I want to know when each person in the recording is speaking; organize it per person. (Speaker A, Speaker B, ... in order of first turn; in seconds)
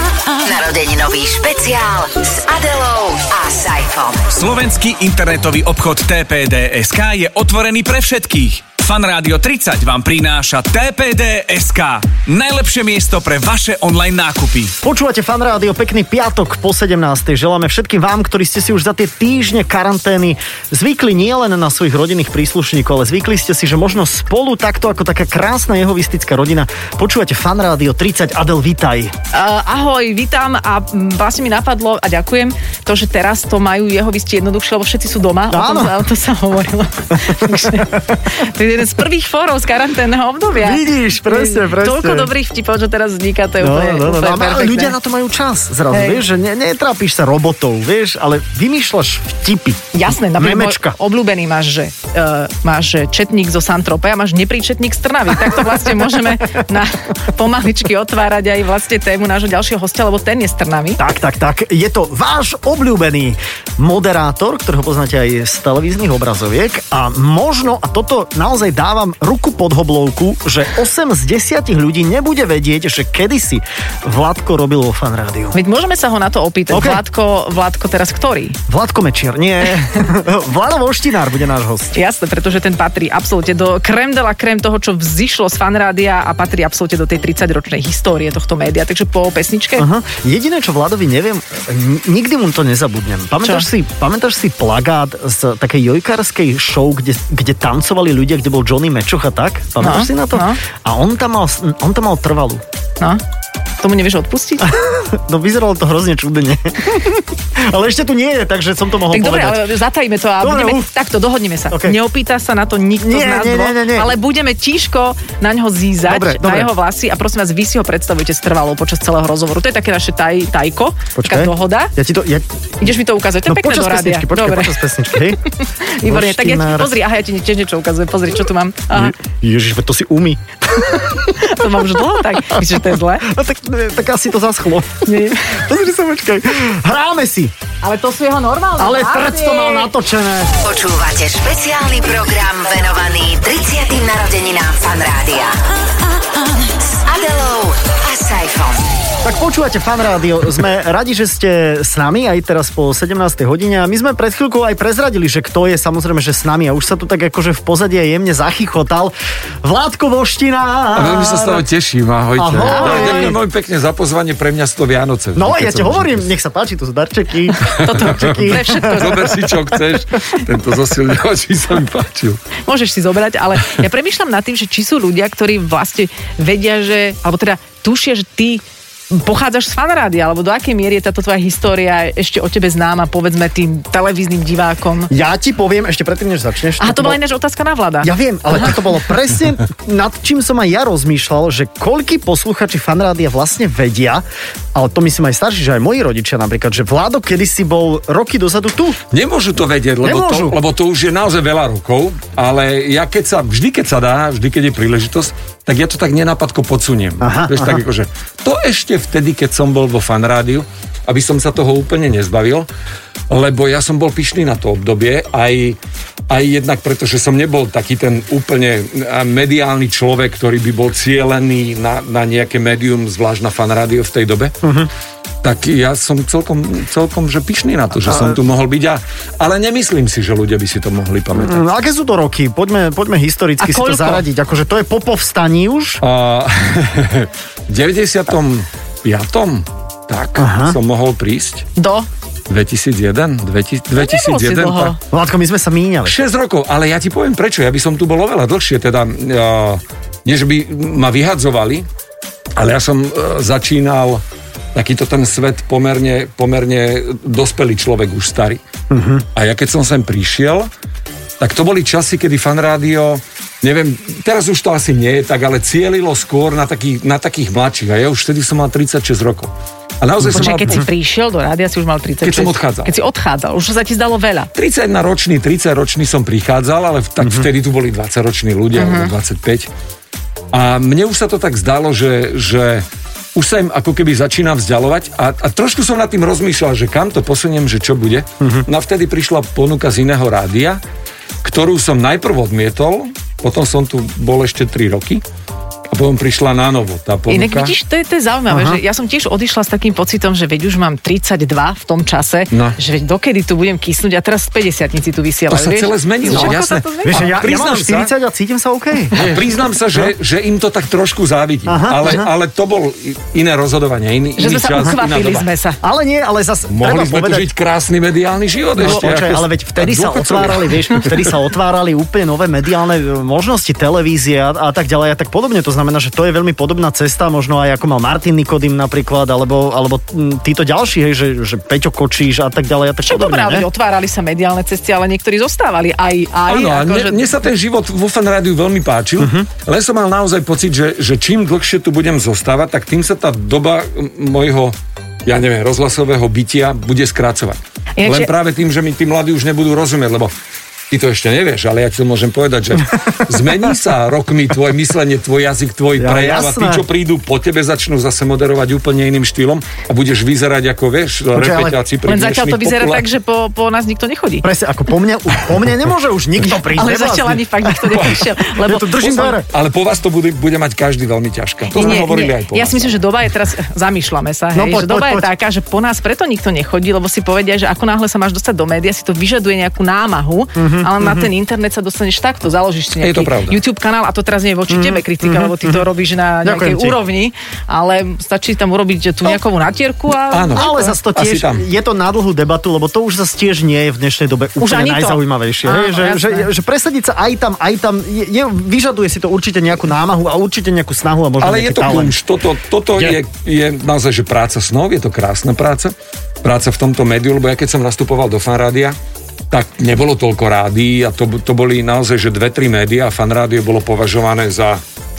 Speaker A: 0.3-4.3, 140.6-145.6, 146.9-148.8
Speaker B: 4.3-14.7
Speaker C: 14.8-29.1, 35.5-36.0, 37.2-38.2, 40.5-42.3, 43.6-51.0, 61.0-75.5, 76.7-77.0, 78.7-81.9, 89.8-102.6, 104.6-109.7, 110.4-110.9, 111.7-112.0, 113.0-114.1, 116.0-116.7, 121.2-122.7, 123.5-125.4, 126.0-126.9, 128.9-137.5, 138.8-140.5, 149.2-161.6, 162.3-163.4, 165.3-169.8, 185.1-187.2, 188.0-199.0, 200.0-200.6, 207.2-207.8, 224.6-224.9, 228.1-228.3, 231.3-236.0, 240.4-240.8, 245.1-246.1, 258.9-259.2, 277.2-277.5, 288.4-288.6, 298.5-298.8, 306.3-306.5, 307.0-309.4, 311.6-312.3, 315.8-317.5, 318.8-333.7, 339.2-339.5, 356.0-356.8, 361.3-361.8, 364.4-369.5, 374.5-375.3, 380.6-381.3, 384.7-385.8, 386.4-387.0, 390.5-402.1
Speaker D: 29.3-45.0, 45.9-46.2, 49.9-61.0, 75.5-78.6, 81.9-89.9, 99.8-100.6, 103.8-104.7, 109.1-121.9, 122.8-129.1, 130.8-133.3, 135.0-135.6, 137.8-139.9, 162.6-163.3, 167.6-169.2, 172.7-185.1, 186.8-188.7, 233.6-234.2, 241.8-242.1, 243.9-245.0, 270.3-274.5, 278.8-279.1, 297.3-307.2, 314.4-315.8, 333.0-337.4, 348.0-348.3, 362.0-364.5, 366.7-369.2, 371.7-390.9, 394.6-396.5
Speaker E: 160.9-166.3, 167.7-172.4, 199.1-212.7, 213.3-215.8, 216.3-224.5, 225.4-231.7, 236.0-241.7, 242.5-244.9, 246.0-251.8, 252.6-254.2, 254.7-258.6, 259.3-260.7, 261.4-270.8, 272.2-272.9, 274.5-279.7, 280.5-290.8, 291.4-295.2, 295.9-297.7, 302.5-302.8, 305.5-308.1, 309.1-315.5, 316.7-321.0, 336.5-350.3, 350.9-363.0, 369.0-373.0, 383.0-383.6, 390.3-391.6, 401.4-408.9, 409.5-414.8